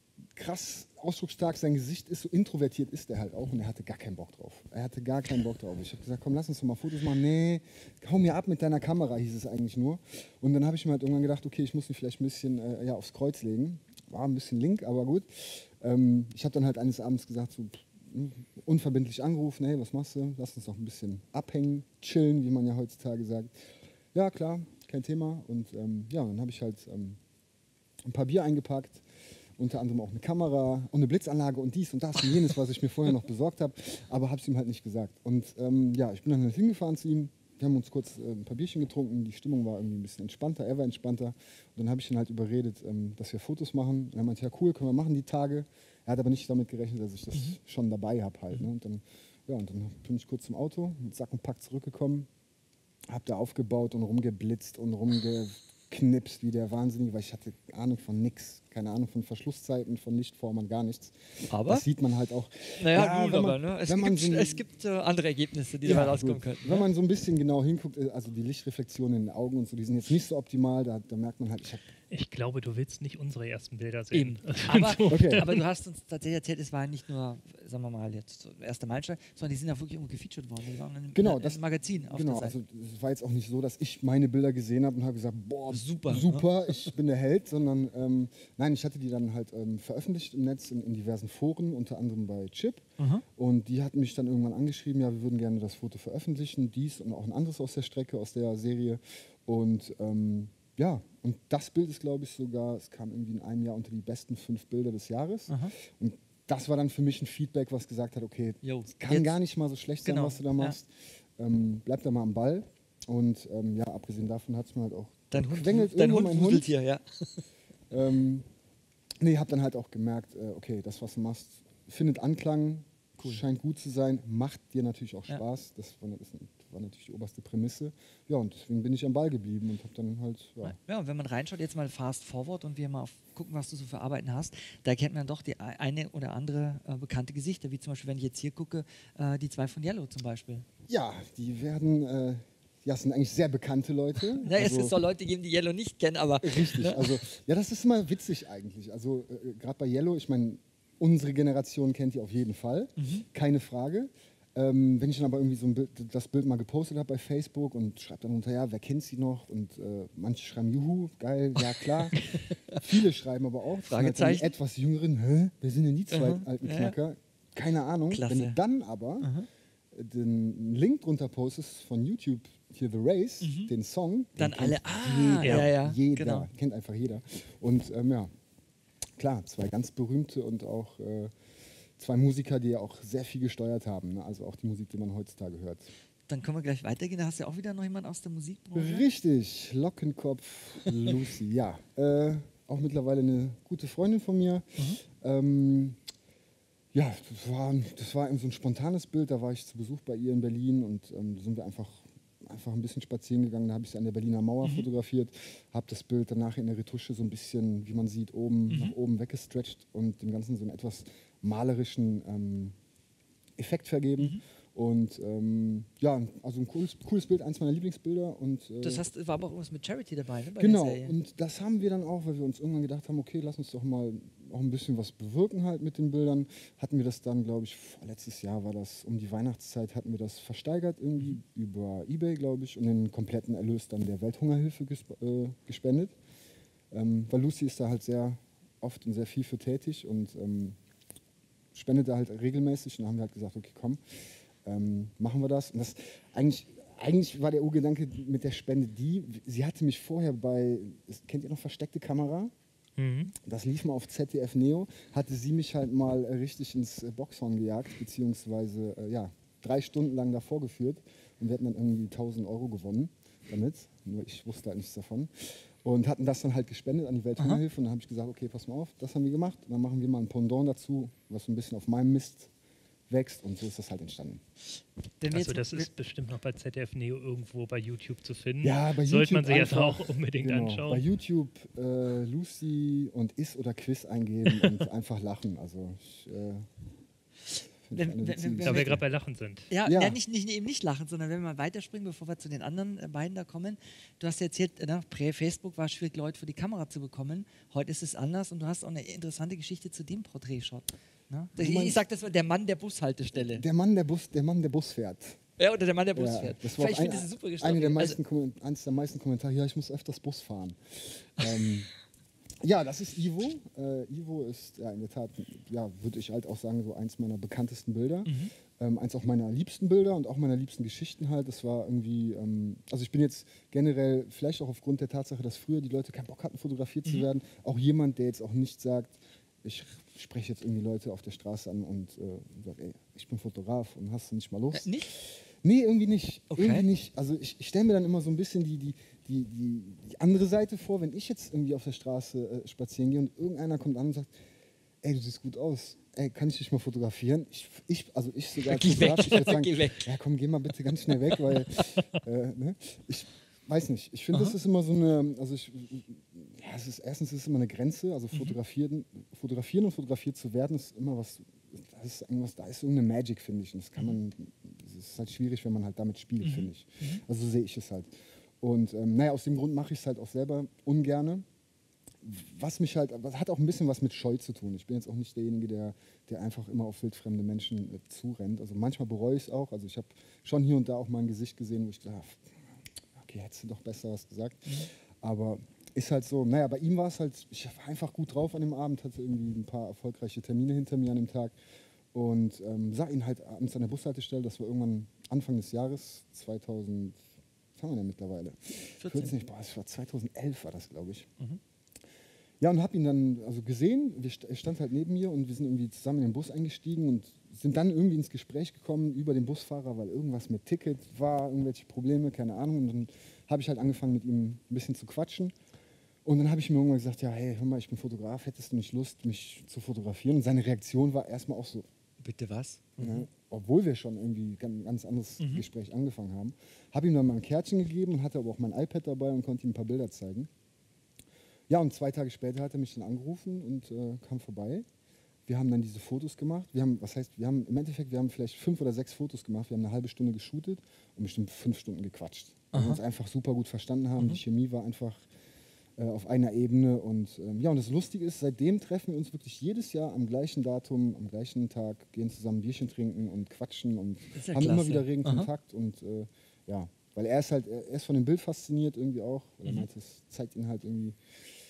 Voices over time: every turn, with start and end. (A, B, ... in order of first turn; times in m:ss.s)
0:00.3-0:27.2 A
0:28.0-0:29.0 A
0:29.6-0:52.3 A
0:53.1-1:04.6 A
1:01.5-1:01.8 B
1:02.8-1:06.9 B
1:05.8-1:11.8 A
1:12.1-1:15.6 C
1:14.1-1:22.6 B
1:15.1-1:15.5 A
1:21.1-1:56.7 A
1:25.7-1:26.5 B
1:33.0-1:33.2 B
1:45.5-1:45.8 B
1:48.6-1:49.4 B
1:50.0-1:50.8 B
1:55.3-1:57.4 B
1:57.9-1:58.5 A
1:59.2-2:10.8 A
2:10.6-2:20.7 B
2:20.9-2:25.0 A
2:24.4-2:27.2 B
2:26.4-2:42.2 A
2:33.0-2:33.2 B
2:42.2-2:43.0 B
2:42.8-2:49.3 A
2:43.8-2:44.5 B
2:46.1-2:47.0 B
2:48.1-2:48.6 B
2:49.2-2:49.5 B
2:49.9-2:58.3 A
2:53.4-2:53.7 B
2:54.4-2:56.5 B
2:55.4-2:55.7 C
2:59.2-3:01.3 A
3:02.0-3:05.9 A
3:06.3-3:09.0 B
3:08.7-3:16.0 A
3:16.9-3:32.8 A
3:28.7-3:29.0 B
3:33.6-3:39.0 A
3:38.8-3:41.2 B
3:40.6-3:56.2 A
3:56.9-4:00.8 A
4:01.7-4:12.5 A
4:13.0-4:13.3 C
4:13.4-4:32.5 A
4:33.1-4:34.4 A
4:35.2-4:35.9 B
4:35.3-4:41.0 C
4:38.6-4:46.7 A
4:47.8-4:49.0 A
4:47.9-4:49.0 B
4:48.6-4:49.7 C
4:49.7-5:03.6 B
4:49.8-4:50.2 A
5:01.6-5:02.0 A
5:03.3-5:05.4 A
5:05.6-5:08.2 B
5:06.1-5:11.9 A
5:12.6-5:44.3 A
5:18.2-5:18.5 B
5:34.7-5:35.1 B
5:36.5-5:36.9 B
5:45.0-6:11.4 A
5:48.6-5:50.1 B
5:58.3-5:58.6 B
6:06.4-6:07.2 B
6:12.2-6:31.5 A
6:32.1-6:37.2 A
6:37.8-6:41.3 A
6:39.0-6:39.4 B
6:42.6-6:55.5 A
6:56.2-7:01.9 A
7:02.2-7:03.3 B
7:03.0-7:10.5 A
7:05.4-7:05.6 B
7:11.7-7:14.8 A
7:15.5-7:25.3 A
7:22.7-7:23.0 B
7:26.0-7:41.2 A
7:34.3-7:35.5 B